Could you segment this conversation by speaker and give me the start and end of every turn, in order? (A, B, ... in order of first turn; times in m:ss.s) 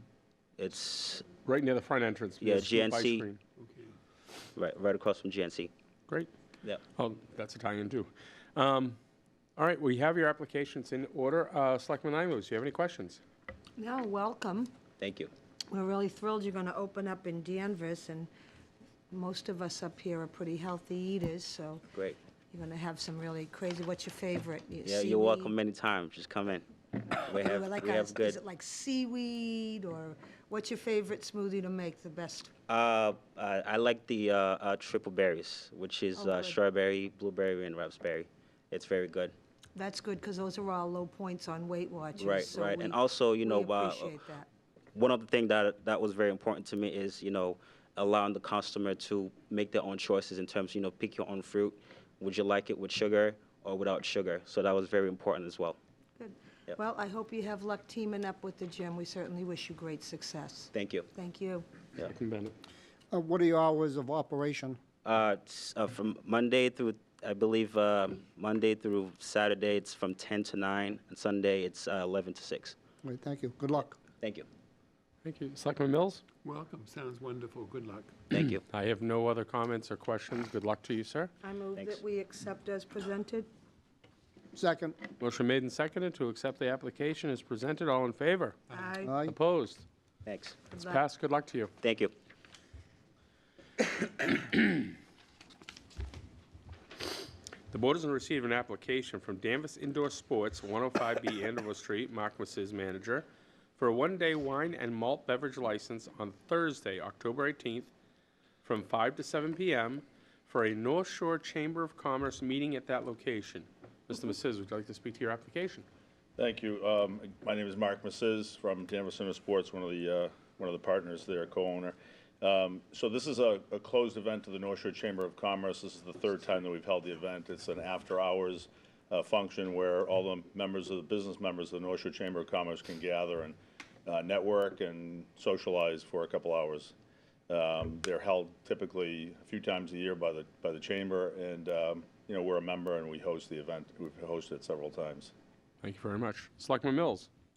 0:00.6-0:01.2 A
0:01.4-0:03.4 B
0:02.4-0:03.2 A
0:03.6-0:03.9 C
0:04.6-0:05.7 A
0:07.0-0:09.0 B
0:09.6-0:13.2 B
0:13.8-0:14.7 D
0:15.0-0:15.3 A
0:15.7-0:18.3 D
0:19.1-0:21.8 D
0:22.5-0:25.5 D
0:24.8-0:26.7 A
0:27.2-0:28.4 A
0:27.3-0:32.5 D
0:32.7-0:39.3 A
0:36.2-0:36.6 D
0:39.7-0:44.5 D
0:42.2-0:44.1 A
0:44.9-0:55.8 A
0:56.2-1:01.6 D
1:00.7-1:01.1 A
1:02.0-1:02.5 B
1:03.1-1:04.8 E
1:05.0-1:12.8 A
1:13.0-1:13.9 E
1:13.8-1:14.5 A
1:15.2-1:16.2 B
1:16.4-1:18.2 C
1:18.3-1:18.6 A
1:18.4-1:21.3 B
1:21.4-1:23.5 D
1:24.5-1:25.0 E
1:25.2-1:28.6 B
1:28.7-1:29.0 C
1:28.7-1:29.1 D
1:29.0-1:29.4 E
1:29.2-1:29.8 B
1:30.2-1:30.6 A
1:30.7-1:31.0 D
1:30.8-1:31.7 B
1:31.8-1:32.1 A
1:37.7-1:43.2 B
1:43.8-1:47.9 B
1:48.6-1:55.8 B
1:56.4-2:16.9 F
2:17.5-2:25.3 F
2:25.8-2:27.3 B